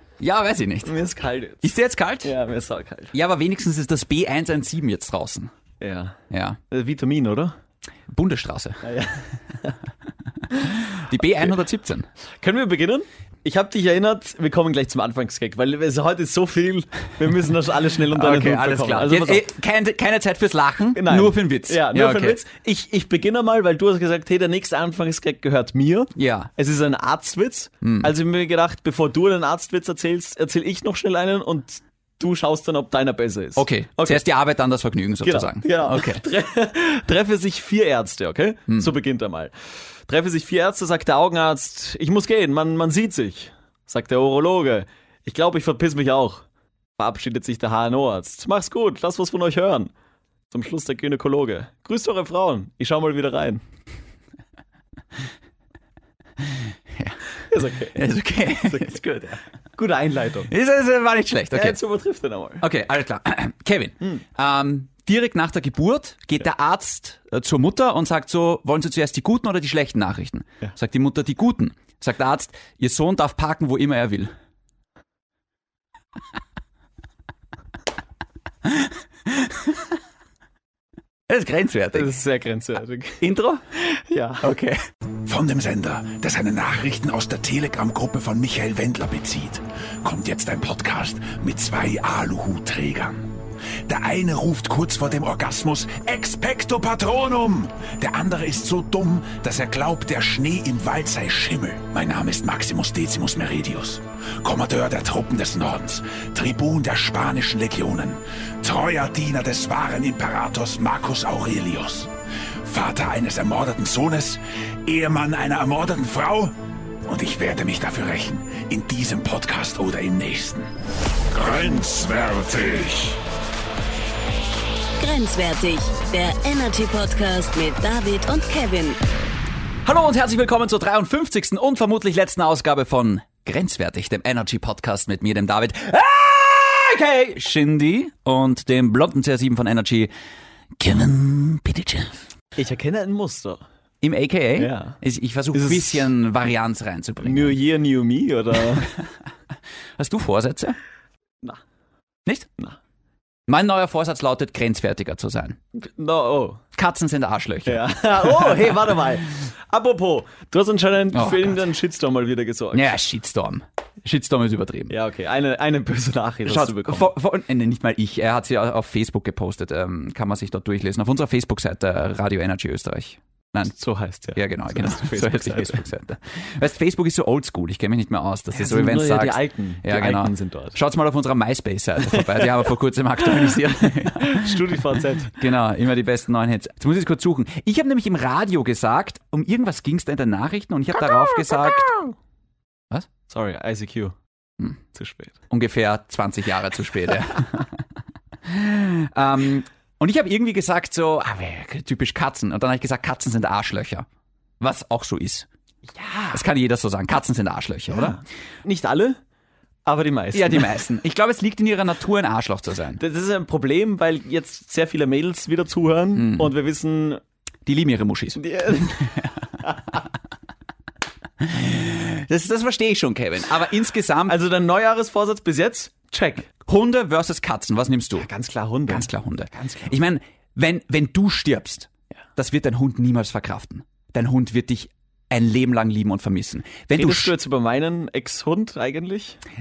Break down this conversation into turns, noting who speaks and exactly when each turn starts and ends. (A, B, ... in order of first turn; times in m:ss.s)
0:00.2-0:01.0 A
0:00.8-0:01.7 B
0:01.6-0:02.3 A
0:02.2-0:03.1 B
0:03.1-0:05.5 A
0:05.8-0:06.2 B
0:06.3-0:06.6 A
0:06.7-0:07.5 B
0:08.1-0:08.8 A
0:08.8-0:09.8 B
0:10.9-0:12.1 A
0:12.4-0:19.4 B
0:18.1-0:22.4 A
0:21.0-0:34.2 B
0:26.2-0:26.5 A
0:27.8-0:28.1 A
0:33.6-0:36.2 A
0:35.2-0:39.5 B
0:38.7-0:38.9 A
0:40.1-0:46.4 B
0:47.0-0:49.9 B
0:50.5-0:53.6 B
0:56.4-0:57.2 A
0:57.5-0:58.0 B
0:57.9-0:59.4 A
0:58.6-0:59.0 B
0:59.8-1:00.5 B
1:00.5-1:01.8 A
1:01.5-1:02.7 B
1:02.6-1:14.3 A
1:19.3-1:19.8 A
1:21.3-1:22.1 A
1:21.9-1:24.5 B
1:23.2-1:23.6 A
1:24.4-1:24.8 A
1:25.3-1:33.3 C
1:33.9-1:52.1 C
1:52.6-1:56.5 C
1:57.1-2:00.7 C
2:01.3-2:03.2 C
2:05.0-2:09.0 D
2:09.8-2:20.1 A
2:20.8-2:22.2 A
2:22.6-2:23.6 B
2:24.0-2:27.6 A
2:24.6-2:25.0 B
2:25.5-2:26.1 B
2:27.2-2:28.9 B
2:30.0-2:30.8 A
2:33.5-2:35.6 A
2:35.7-2:36.6 B
2:36.7-2:39.0 A
2:37.7-2:42.9 B
2:41.1-2:41.6 A
2:42.7-2:45.0 A
2:44.9-2:47.1 B
2:46.5-2:53.7 A
2:53.6-2:55.8 B
2:54.4-3:04.8 A
2:58.5-3:00.8 B
3:04.0-3:05.4 B
3:05.4-3:12.0 A
3:13.3-3:14.2 B
3:14.9-3:15.4 B
3:15.5-3:17.8 A
3:18.4-3:24.1 A
3:24.6-3:25.5 A
3:26.0-3:26.4 B
3:26.3-3:28.2 A
3:27.9-3:29.2 B
3:29.9-3:30.7 B
3:30.3-3:33.0 A
3:33.0-3:37.2 B
3:36.2-3:36.6 A
3:37.7-3:39.2 A
3:38.4-3:39.8 B
3:41.4-3:44.4 A
3:44.3-3:46.5 B
3:46.6-3:48.3 A
3:48.2-3:49.9 B
3:48.9-3:57.3 A
3:56.9-3:59.4 B